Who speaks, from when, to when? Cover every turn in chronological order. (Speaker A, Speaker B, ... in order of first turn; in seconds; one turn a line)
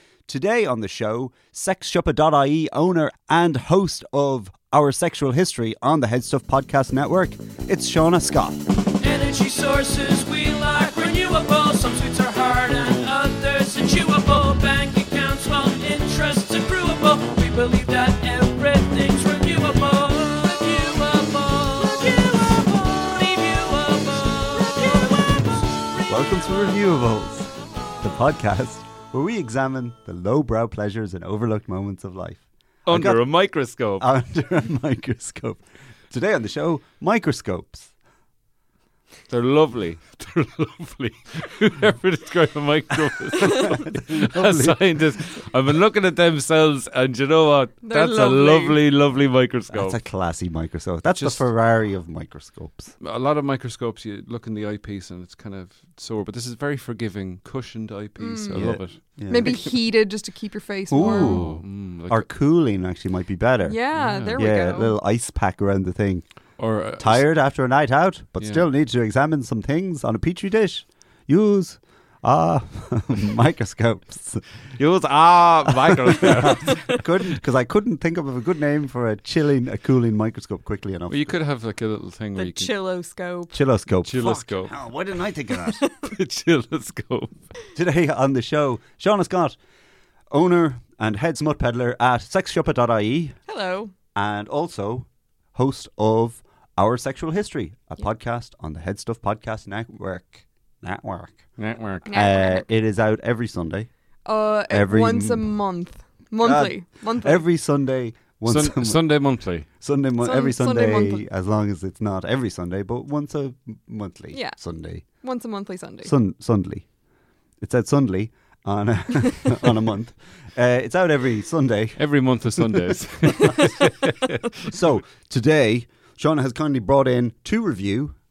Speaker A: 0.3-8.6
Speaker B: 9.0-26.0
Speaker A: 26.1-33.2
Speaker C: 32.9-34.0
Speaker A: 34.0-37.9
Speaker C: 39.3-50.0
Speaker A: 43.6-44.8
Speaker D: 47.8-48.8
Speaker A: 49.7-52.9
Speaker C: 51.1-51.4
Speaker C: 53.0-59.0
Speaker D: 58.2-58.7
Speaker A: 58.5-59.7
Speaker D: 59.3-61.4
Speaker A: 60.9-63.8
Speaker C: 61.0-62.3
Speaker D: 63.6-65.0
Speaker C: 63.9-64.4
Speaker A: 64.3-66.2
Speaker C: 66.6-67.2
Speaker A: 67.0-74.4
Speaker C: 74.8-77.3
Speaker A: 75.8-81.2
Speaker C: 81.1-82.7
Speaker D: 82.3-83.5
Speaker A: 83.5-85.8
Speaker C: 84.0-84.7
Speaker C: 86.0-87.3
Speaker A: 87.7-89.5
Speaker A: 90.3-93.4
Speaker D: 93.5-93.9
Speaker A: 94.1-101.5
Speaker C: 101.6-102.1
Speaker D: 102.0-102.6
Speaker A: 102.1-103.9
Speaker D: 104.2-107.4
Speaker A: 104.7-105.5
Speaker A: 106.4-109.0
Speaker C: 108.5-109.7
Speaker A: 109.8-115.0
Speaker D: 110.2-111.2
Speaker D: 115.2-116.1
Speaker A: 116.0-116.8
Speaker A: 117.6-122.0
Speaker C: 122.0-124.4
Speaker A: 124.6-128.1